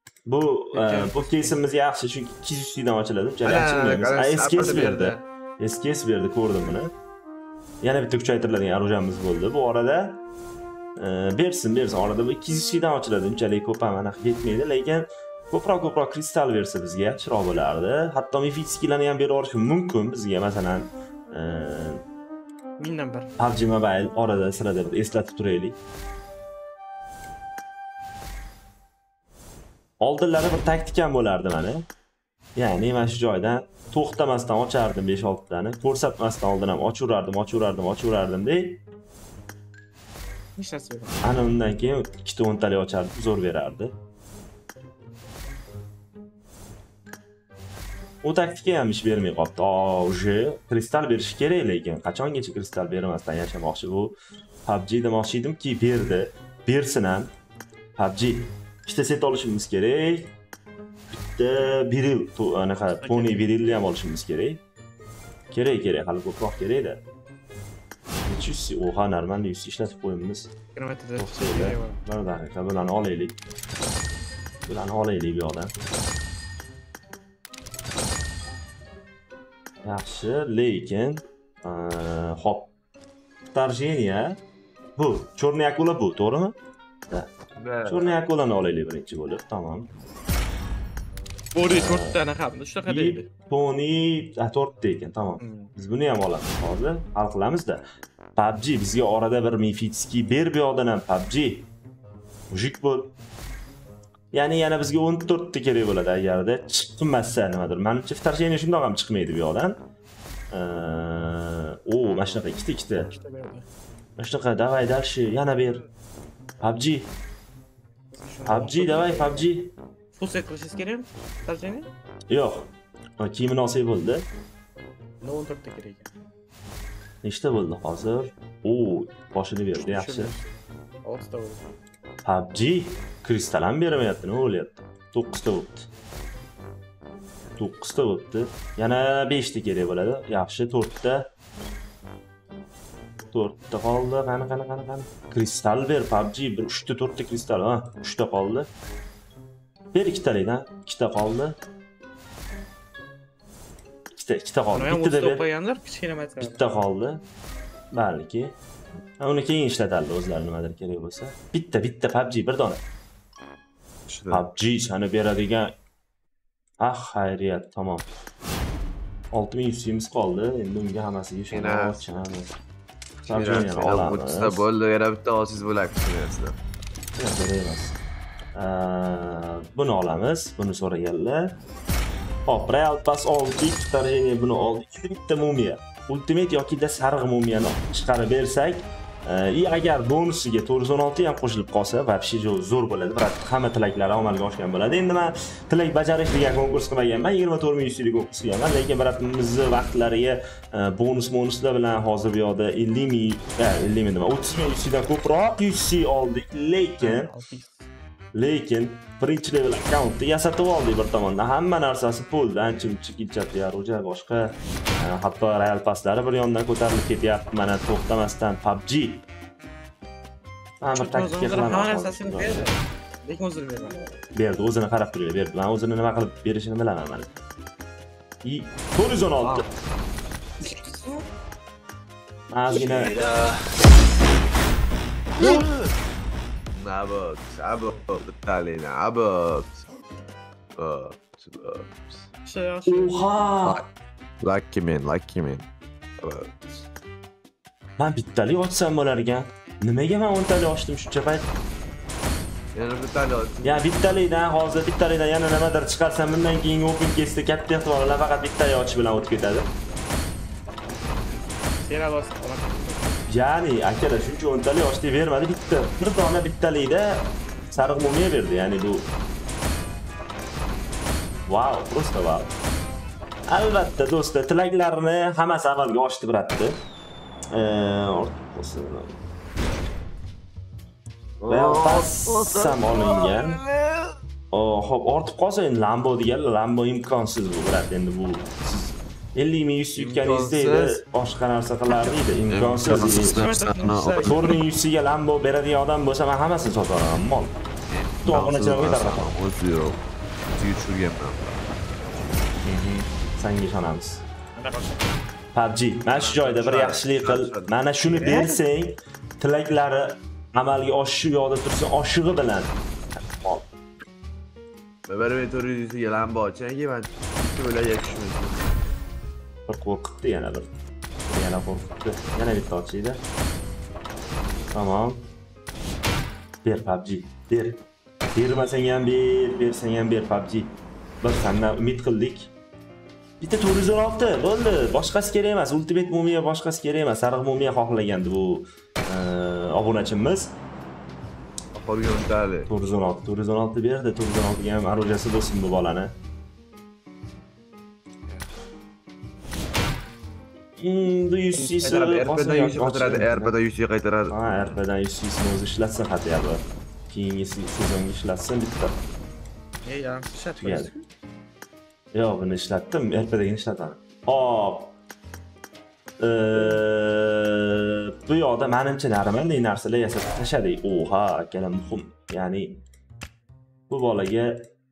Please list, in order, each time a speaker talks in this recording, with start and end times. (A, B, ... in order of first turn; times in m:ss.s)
0:00.3-0:06.9 A
0:00.7-0:01.6 B
0:03.4-0:05.2 C
0:07.8-0:10.2 A
0:11.0-0:22.0 A
0:22.8-0:23.3 B
0:23.4-0:25.8 A
0:30.0-0:31.8 A
0:32.6-0:38.8 A
0:40.6-0:41.2 B
0:41.2-0:43.9 A
0:48.2-0:57.3 A
0:58.0-1:00.3 A
1:01.1-1:04.6 A
1:02.7-1:03.8 B
1:05.5-1:07.0 A
1:08.3-1:10.5 A
1:10.8-1:12.0 B
1:11.2-1:13.4 A
1:14.6-1:15.7 A
1:19.8-1:22.7 A
1:23.5-1:24.4 A
1:25.0-1:26.6 A
1:27.6-1:28.2 C
1:27.8-1:29.9 A
1:31.5-1:33.3 B
1:31.7-1:32.2 A
1:32.9-1:37.8 A
1:35.4-1:35.7 B
1:38.4-1:41.7 A
1:42.5-1:43.1 A
1:44.3-1:49.8 A
1:50.5-1:53.1 A
1:53.0-1:53.7 B
1:54.2-1:55.9 A
1:56.6-1:57.1 A
1:58.1-1:59.5 B
1:58.5-1:59.7 A
2:00.2-2:01.9 B
2:02.3-2:04.3 A
2:05.2-2:06.1 B
2:07.2-2:10.4 A
2:09.8-2:10.4 B
2:11.0-2:11.6 B
2:12.2-2:15.9 A
2:17.6-2:21.3 A
2:23.3-2:28.7 A
2:29.9-2:31.6 A
2:34.2-2:35.4 A
2:34.7-2:36.6 B
2:36.4-2:37.2 A
2:37.9-2:38.5 A
2:39.2-2:42.8 A
2:44.1-2:44.4 C
2:44.3-2:45.7 A
2:46.8-2:48.0 A
2:49.3-2:52.5 A
2:51.5-2:52.3 C
2:53.2-2:54.7 A
2:53.2-2:56.6 C
2:57.2-2:58.0 A
2:58.6-3:01.6 A
3:02.5-3:27.3 A
3:27.0-3:27.8 B
3:28.3-3:39.2 A
3:40.8-3:42.7 A
3:40.9-3:44.1 B
3:44.3-3:47.3 A
3:48.4-3:49.7 A
3:49.4-3:49.7 B
3:50.6-3:51.2 B
3:52.5-3:53.2 A
3:52.7-3:53.8 C
3:55.4-3:55.9 C
3:56.7-3:59.8 C
4:00.8-4:02.3 C
4:02.4-4:03.2 B
4:02.9-4:03.8 A
4:04.4-4:05.7 C
4:06.2-4:06.9 C
4:08.0-4:11.6 A
4:12.7-4:13.9 C
4:13.6-4:19.7 A
4:21.8-4:23.3 B
4:23.3-4:29.1 A
4:31.5-4:32.5 A
4:33.5-4:36.8 A
4:37.5-4:39.2 A
4:41.4-4:44.2 C
4:41.5-4:43.6 A
4:44.5-4:53.5 A
4:50.0-4:51.0 C
4:52.5-4:54.5 C
4:52.9-4:54.6 B
4:54.2-4:57.6 A
4:57.9-5:01.6 C
4:58.2-4:59.4 A
5:02.6-5:04.2 A
5:04.6-5:05.1 B
5:05.5-5:13.7 A
5:06.1-5:08.5 C
5:15.1-5:18.7 C
5:19.7-5:20.7 A
5:21.3-5:23.2 A
5:24.7-5:25.3 A
5:26.6-5:27.8 A
5:28.3-5:32.5 A
5:33.4-5:40.6 A
5:41.7-5:42.7 C
5:42.7-5:46.1 A
5:50.8-5:53.6 A
5:51.5-5:54.8 C
5:54.3-5:59.1 A
5:59.8-6:01.0 B
6:00.6-6:00.9 A
6:02.1-6:04.9 A
6:06.2-6:12.8 A
6:13.9-6:14.7 A